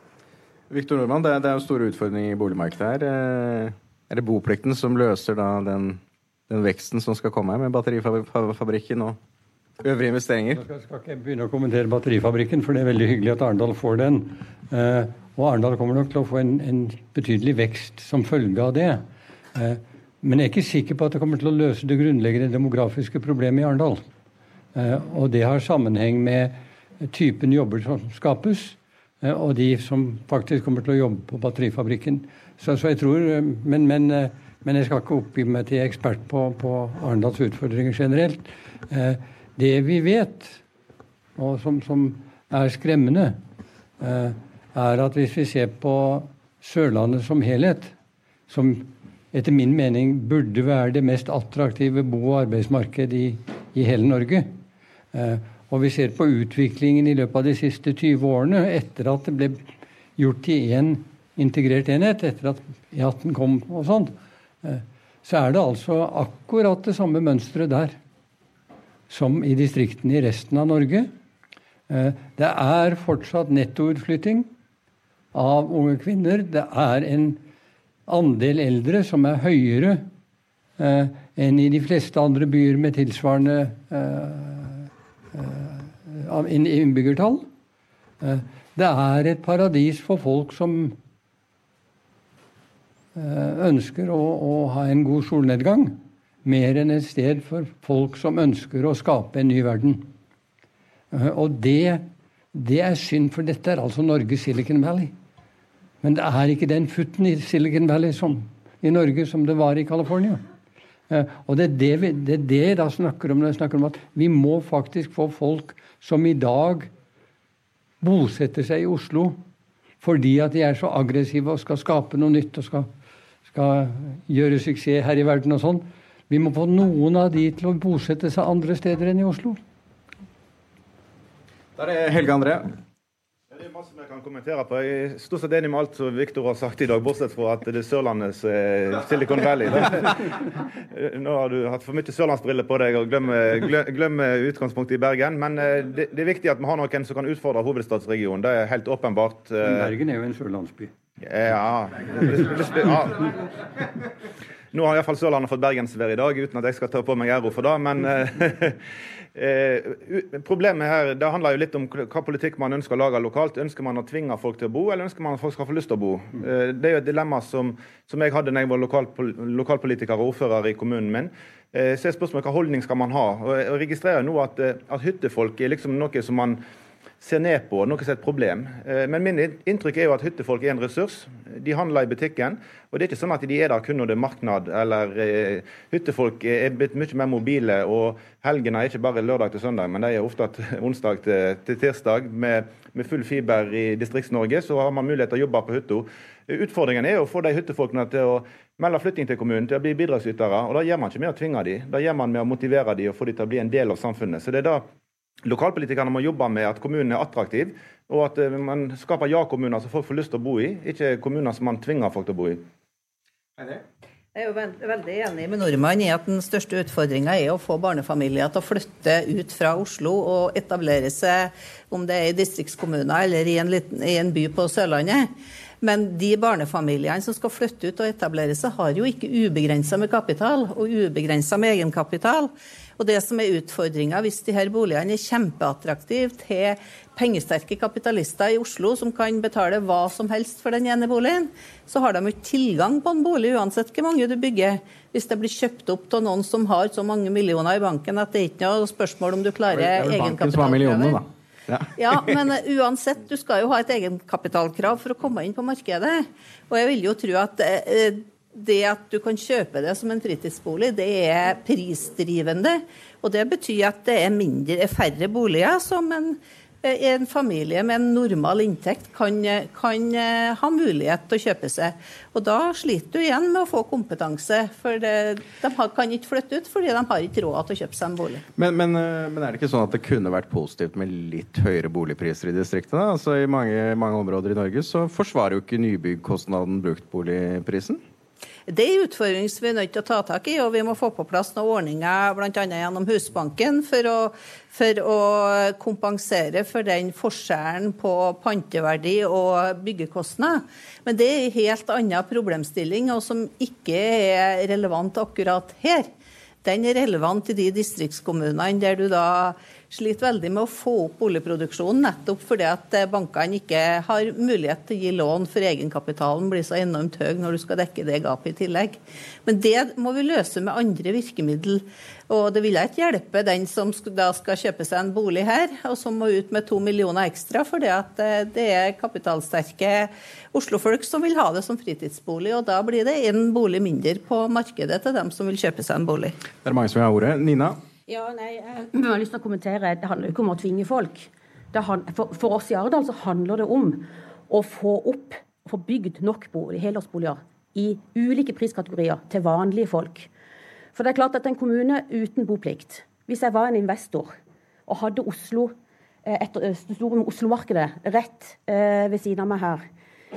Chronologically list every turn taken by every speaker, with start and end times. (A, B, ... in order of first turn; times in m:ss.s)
0:00.7-0:09.2 A
0:09.8-0:10.6 A
0:10.6-0:19.0 B
0:19.6-0:24.0 B
0:24.8-0:40.6 B
0:41.4-0:43.4 B
0:44.0-0:47.9 B
0:48.5-0:54.6 B
0:55.1-0:59.6 B
1:00.2-1:08.0 B
1:09.1-1:11.1 B
1:11.9-1:14.5 B
1:15.3-1:17.4 B
1:18.1-1:20.1 B
1:20.8-1:27.5 B
1:28.2-1:31.0 B
1:33.2-1:40.1 B
1:41.1-1:45.1 B
1:46.0-1:50.4 B
1:51.1-1:56.9 B
1:58.0-1:59.4 B
2:00.0-2:02.9 B
2:03.5-2:09.6 B
2:11.8-2:12.8 A
2:13.5-2:20.3 C
2:20.9-2:29.9 C
2:29.6-2:30.9 B
2:31.2-2:33.3 C
2:34.7-2:38.8 C
2:39.4-2:56.6 C
2:57.2-3:24.8 C
3:25.4-3:32.6 C
3:33.6-3:33.8 A
3:34.4-3:45.3 D
3:45.8-4:11.2 D
4:09.8-4:12.4 A
4:12.0-4:38.4 D
4:38.6-4:48.0 A
4:48.7-5:06.1 D
5:06.6-5:36.4 D
5:36.6-5:37.8 A
5:38.1-5:50.3 E
5:51.0-5:54.3 E
5:54.9-5:55.7 E
5:56.2-5:59.8 E